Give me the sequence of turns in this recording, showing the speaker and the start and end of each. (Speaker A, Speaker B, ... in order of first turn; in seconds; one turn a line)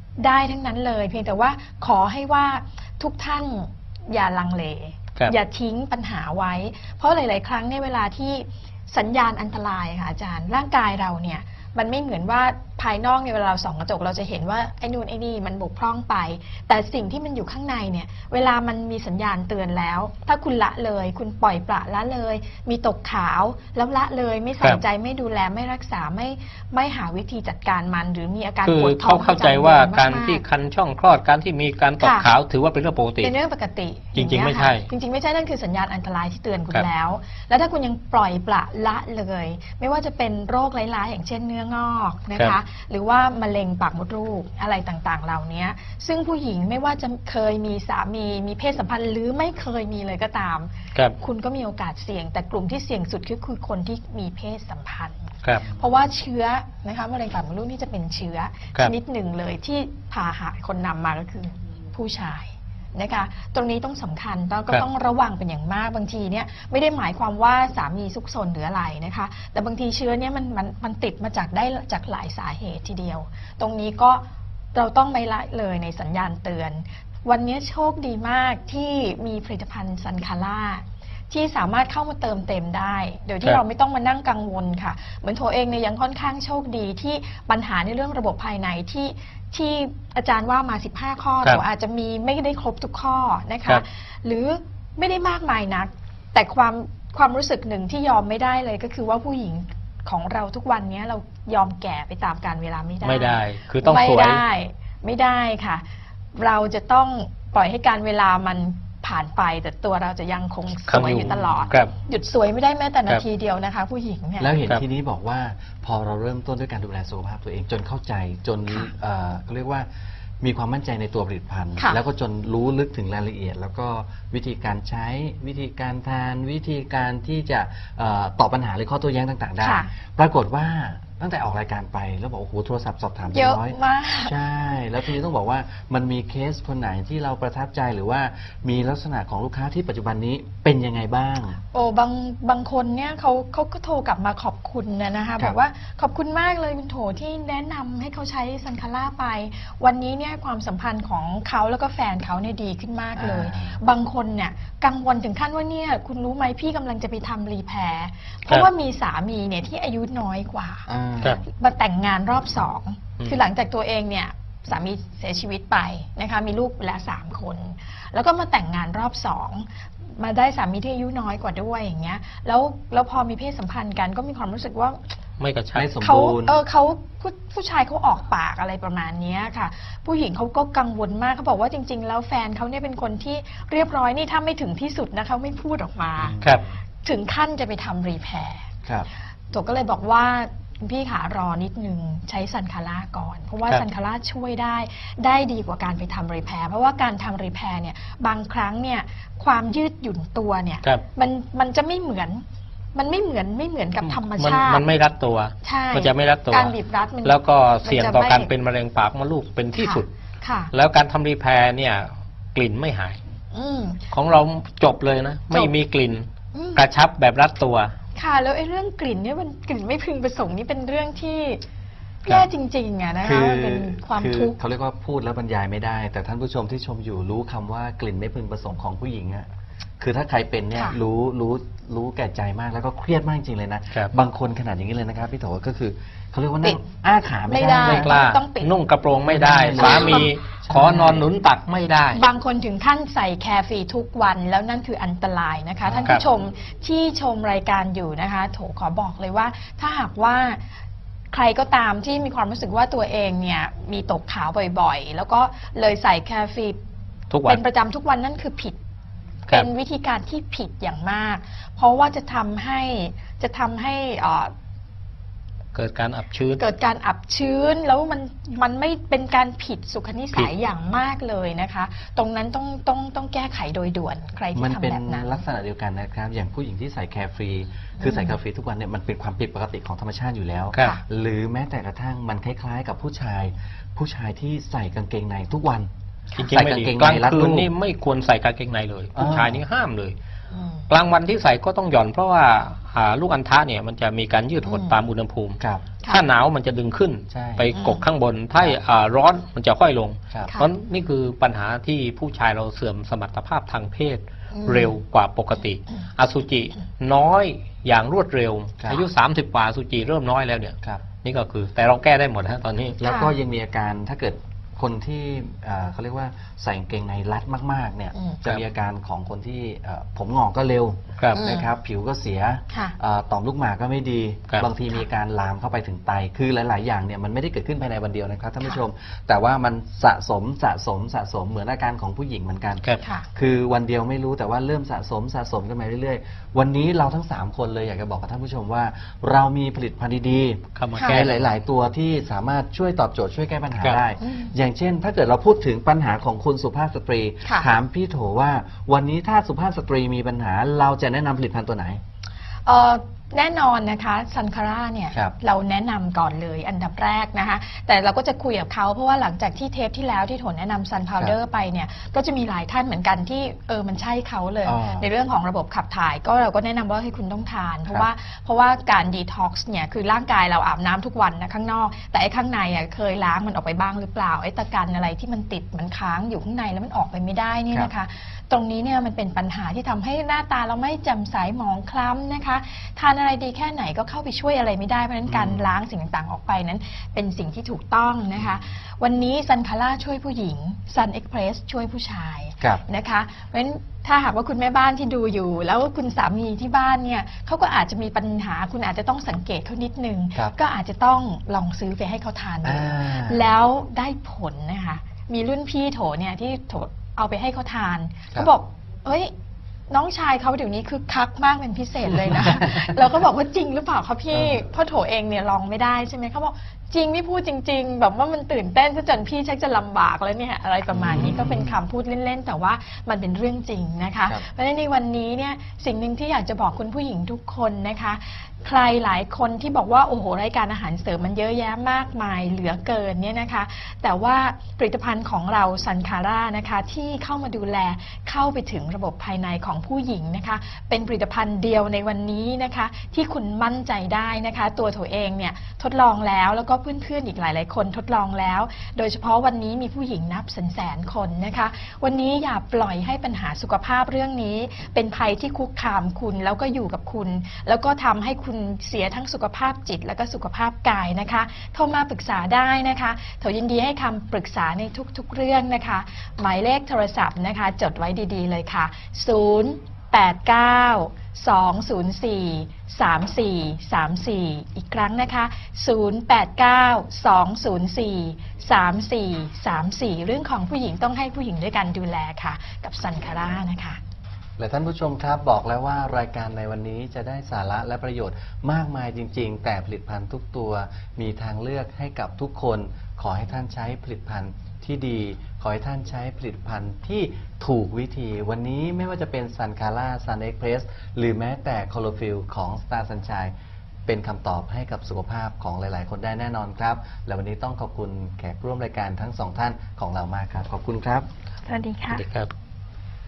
Speaker A: 0.2-30.4
Speaker B: 28.6-33.3
Speaker A: 32.0-32.3
Speaker A: 33.2-114.5
Speaker B: 34.1-34.9
Speaker B: 55.4-55.7
Speaker B: 103.0-104.4
Speaker B: 110.9-111.9
Speaker C: 114.4-119.9
Speaker C: 120.4-141.6
Speaker A: 129.6-129.9
Speaker A: 133.3-134.3
Speaker A: 141.7-160.9
Speaker C: 153.1-153.8
Speaker C: 160.9-161.4
Speaker A: 161.4-175.1
Speaker B: 175.4-176.0
Speaker C: 175.7-176.6
Speaker A: 176.0-186.4
Speaker C: 186.2-186.6
Speaker B: 186.4-186.7
Speaker A: 187.0-188.7
Speaker A: 189.5-202.4
Speaker A: 202.9-204.8
Speaker B: 204.0-210.1
Speaker A: 205.6-208.5
Speaker A: 209.8-210.7
Speaker B: 210.7-213.2
Speaker A: 213.5-214.1
Speaker B: 214.1-217.9
Speaker A: 216.5-216.8
Speaker A: 218.1-221.6
Speaker A: 222.2-224.6
Speaker C: 223.2-229.5
Speaker C: 230.0-238.1
Speaker A: 230.7-231.0
Speaker A: 237.5-238.7
Speaker B: 237.8-242.2
Speaker C: 239.2-241.2
Speaker A: 239.7-240.3
Speaker A: 242.1-250.6
Speaker C: 245.8-246.2
Speaker A: 251.3-256.8
Speaker B: 257.3-257.6
Speaker A: 257.4-258.8
Speaker A: 259.5-264.5
Speaker B: 265.7-266.6
Speaker A: 266.6-275.4
Speaker C: 274.5-285.9
Speaker A: 278.0-278.3
Speaker B: 280.7-281.0
Speaker B: 286.4-290.1
Speaker C: 286.4-287.7
Speaker C: 289.1-289.6
Speaker A: 290.5-290.9
Speaker B: 290.9-313.0
Speaker A: 294.6-294.9
Speaker C: 295.6-295.9
Speaker C: 297.3-297.7
Speaker A: 297.7-298.0
Speaker A: 304.5-304.9
Speaker C: 308.8-309.1
Speaker C: 313.0-352.0
Speaker A: 313.0-313.4
Speaker A: 318.1-318.4
Speaker A: 321.3-321.6
Speaker A: 322.7-322.9
Speaker A: 333.0-333.3
Speaker B: 340.8-341.4
Speaker A: 340.9-341.2
Speaker A: 344.2-344.5
Speaker A: 347.4-347.7
Speaker A: 352.6-409.3
Speaker C: 364.6-365.1
Speaker C: 385.3-385.8
Speaker C: 388.3-388.7
Speaker C: 402.6-403.4
Speaker A: 409.9-484.0
Speaker C: 412.1-412.9
Speaker C: 414.3-414.6
Speaker C: 420.9-421.8
Speaker C: 484.6-503.5
Speaker C: 504.1-511.3
Speaker A: 511.6-512.2
Speaker B: 512.1-512.5